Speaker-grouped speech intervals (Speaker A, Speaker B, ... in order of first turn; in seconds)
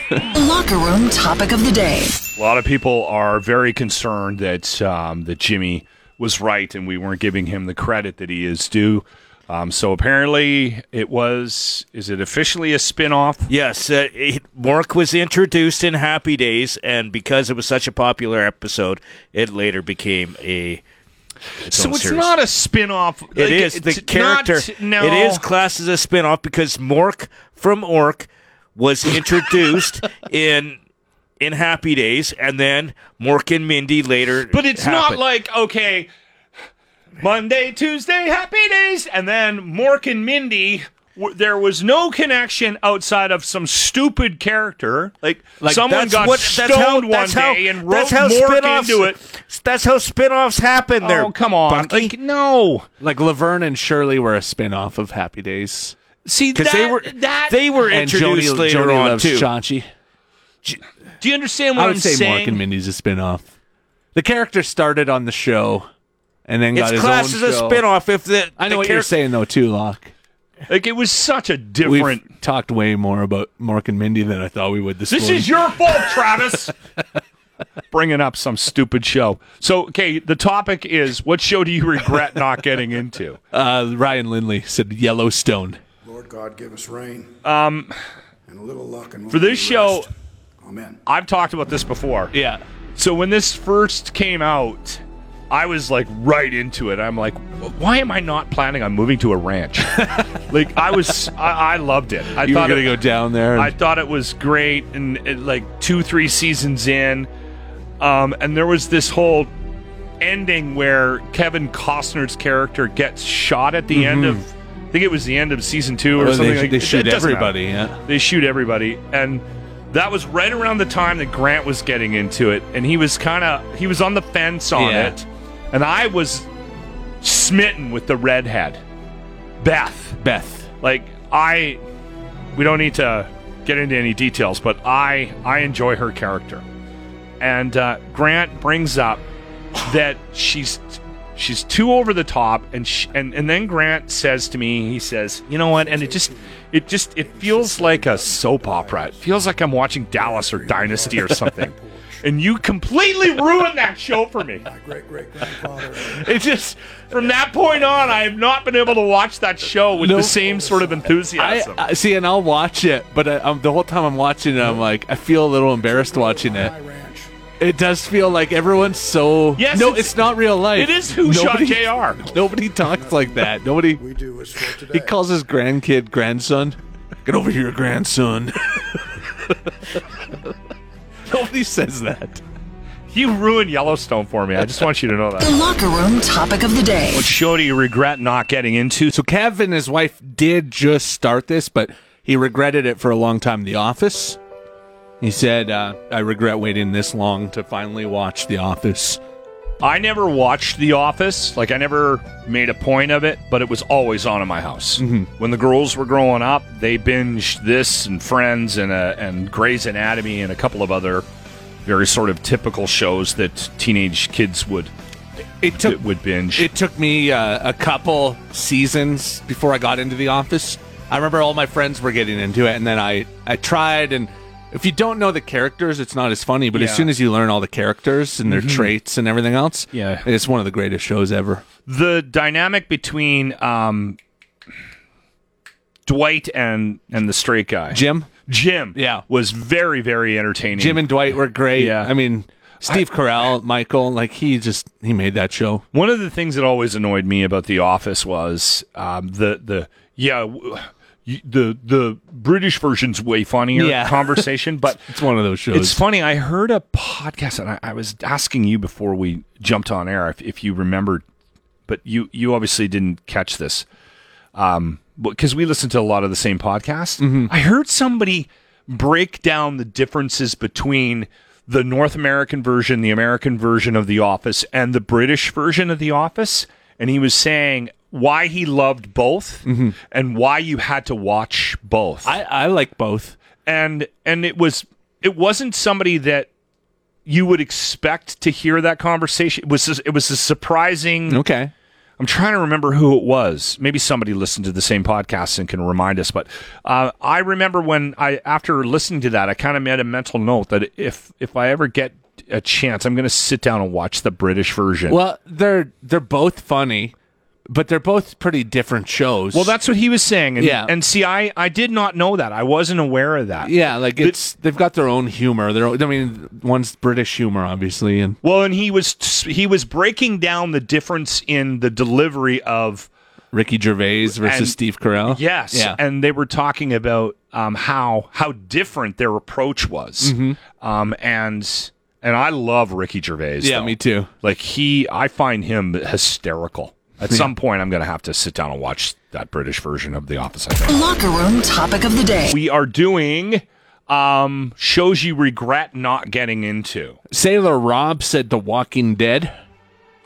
Speaker A: 0.3-2.2, 185.4-187.3, 340.9-342.6
Speaker B: 2.4-13.5, 21.7-25.4, 34.5-36.1, 37.2-49.2, 51.0-52.9, 56.2-57.8, 61.2-62.6, 70.7-72.3, 75.1-76.7, 77.9-83.4, 87.4-87.9, 89.3-90.1, 91.0-92.3, 93.0-103.0, 103.5-107.3, 108.0-109.5, 110.2-126.5, 127.2-128.8, 129.6-130.2, 130.8-131.8, 132.6-136.6, 137.4-139.2, 139.8-151.7, 152.2-154.7, 157.1-161.8, 169.6-172.2, 183.1-185.6, 187.1-189.1, 199.8-211.2, 211.9-214.9, 215.8-216.7, 226.7-227.1, 228.4-228.9, 229.9-230.2, 231.9-234.2, 236.1-242.1, 245.9-255.1, 255.7-261.2, 261.9-263.9, 264.6-282.3, 283.6-286.5, 287.2-291.4, 292.2-305.2, 309.5-314.4, 318.4-323.1, 324.4-341.1, 342.5-347.2
Speaker C: 13.5-20.8, 21.7-22.3, 23.4-30.8, 31.4-35.2, 45.6-52.1, 56.5-59.5, 66.8-69.1
Speaker D: 53.0-56.0, 57.9-59.9, 61.8-63.5, 64.1-65.9, 66.5-67.8, 68.6-70.1, 71.8-75.5, 83.5-85.8, 92.3-92.6, 99.9-100.3, 102.4-103.7, 113.9-114.4, 116.2-118.0, 124.8-125.2, 130.2-130.7, 156.1-156.8, 160.0-160.4, 161.4-166.7, 167.6-174.0, 174.9-178.9, 181.3-182.4, 189.1-194.4, 195.2-199.2, 205.0-205.3, 215.6-216.0, 216.6-231.6, 237.9-238.3, 238.9-239.2, 240.8-245.8, 253.7-254.5, 255.1-256.0, 267.2-267.5, 279.6-279.9, 282.2-283.4, 291.3-291.7, 305.1-307.1, 307.7-309.7, 310.6-310.9, 313.6-318.4, 323.5-326.0, 330.2-330.6, 333.6-334.3, 347.3-349.5
Speaker E: 86.0-87.4, 88.5-90.0, 90.6-91.0, 145.7-149.2, 150.1-152.2, 154.6-156.3, 160.3-161.2, 165.8-167.3, 172.1-175.1